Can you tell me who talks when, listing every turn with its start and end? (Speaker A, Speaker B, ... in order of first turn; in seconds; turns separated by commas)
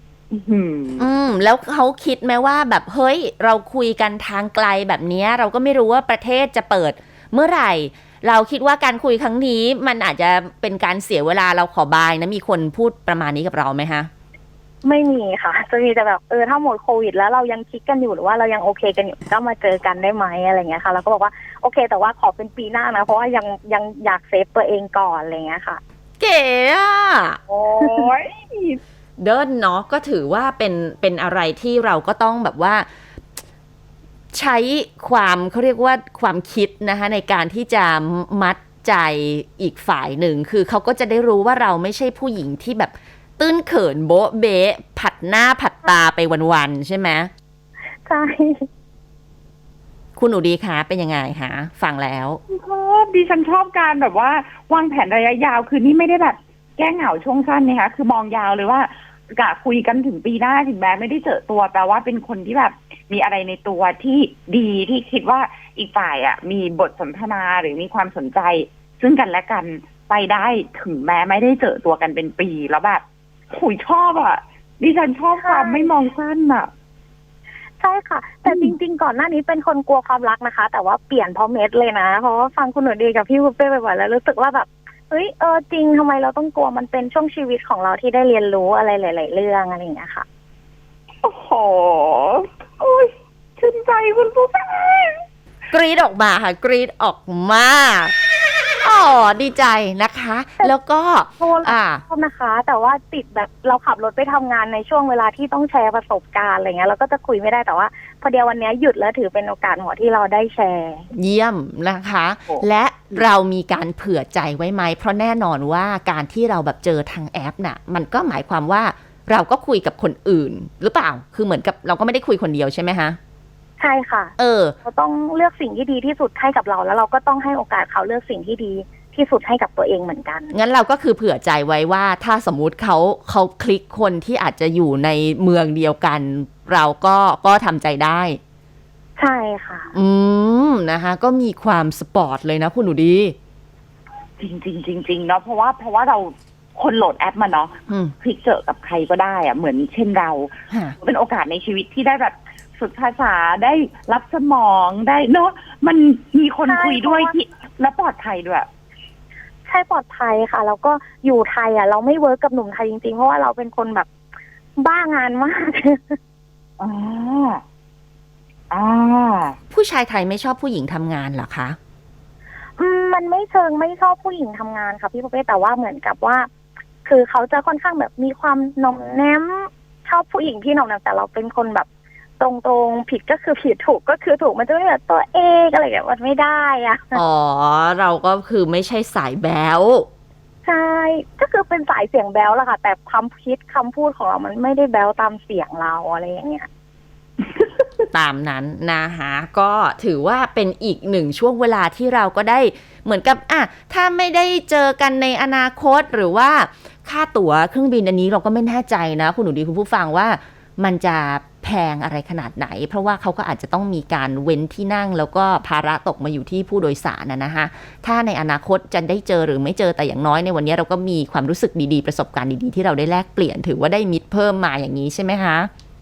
Speaker A: 0.3-1.1, Speaker B: 1.0-14.1, Speaker C: 14.8-25.8, Speaker B: 26.2-27.4, Speaker A: 27.5-28.8, Speaker C: 27.8-28.1, Speaker B: 29.2-32.9, Speaker B: 34.3-47.3, Speaker C: 48.0-48.7, Speaker B: 50.1-52.4, Speaker A: 52.5-76.7, Speaker C: 75.4-75.9, Speaker C: 77.8-90.2, Speaker A: 78.5-78.7, Speaker A: 91.2-95.2, Speaker B: 95.7-98.1, Speaker B: 98.8-102.0, Speaker C: 101.4-111.1, Speaker B: 111.1-123.2, Speaker C: 123.8-130.5, Speaker B: 124.4-124.7, Speaker B: 130.5-138.4, Speaker C: 139.2-139.9, Speaker B: 139.9-143.3, Speaker A: 144.4-158.7, Speaker C: 156.7-157.3, Speaker C: 159.7-164.1, Speaker C: 164.8-166.2, Speaker A: 166.8-167.6, Speaker A: 168.7-169.6, Speaker B: 169.7-171.8, Speaker C: 172.8-176.5, Speaker C: 177.0-181.9, Speaker C: 182.4-187.2, Speaker B: 187.1-190.1, Speaker C: 190.6-196.7, Speaker B: 198.1-225.7